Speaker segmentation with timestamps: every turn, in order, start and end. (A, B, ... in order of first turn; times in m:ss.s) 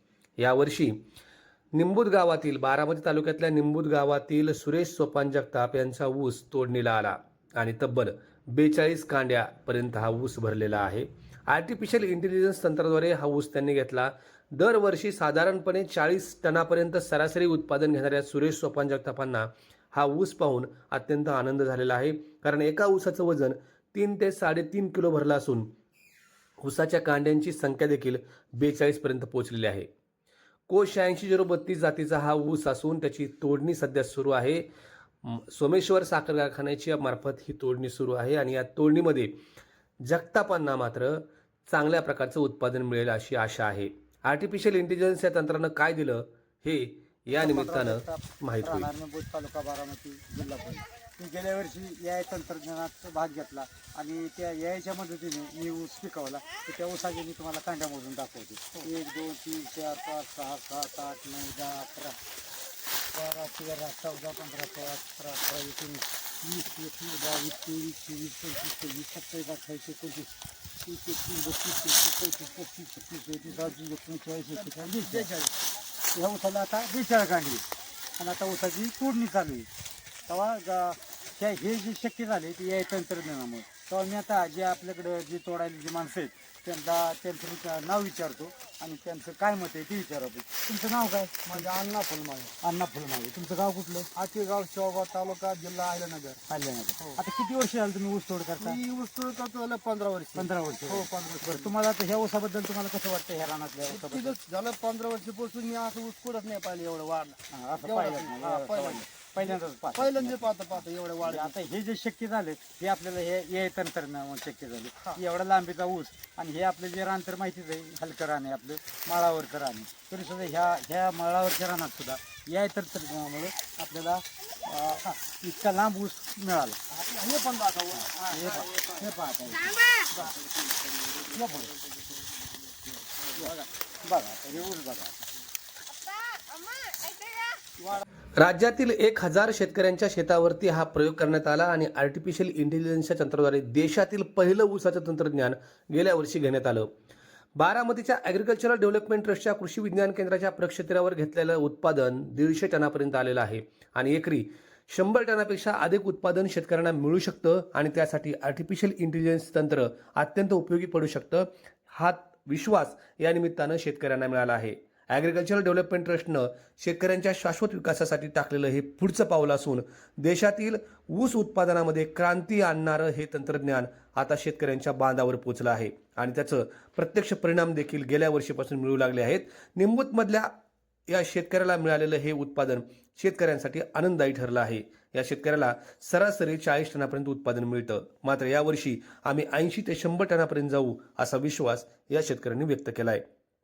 0:00.4-0:01.0 A
0:01.8-0:25.7 A
0:26.6-0:29.9 A
0:30.7-0:34.6 A
0:35.2-0:39.3 A
0:40.0-0:48.9 A
0:47.3-1:02.2 B
1:03.1-1:15.3 B
1:14.6-1:15.6 C
1:16.1-1:17.7 B
1:18.2-1:19.7 B
1:20.3-1:31.8 B
1:31.5-1:32.5 C
1:32.6-1:34.1 B
1:34.1-1:36.4 C
1:36.5-1:38.8 B
1:38.6-1:41.8 C
1:40.4-1:44.4 B
1:43.9-1:51.6 C
1:47.5-2:06.8 B
2:06.9-2:08.9 C
2:08.0-2:10.3 B
2:11.2-2:11.6 C
2:11.3-2:11.7 B
2:13.4-2:15.3 B
2:18.4-2:26.9 A
2:27.6-3:00.5 A
3:01.1-3:13.2 A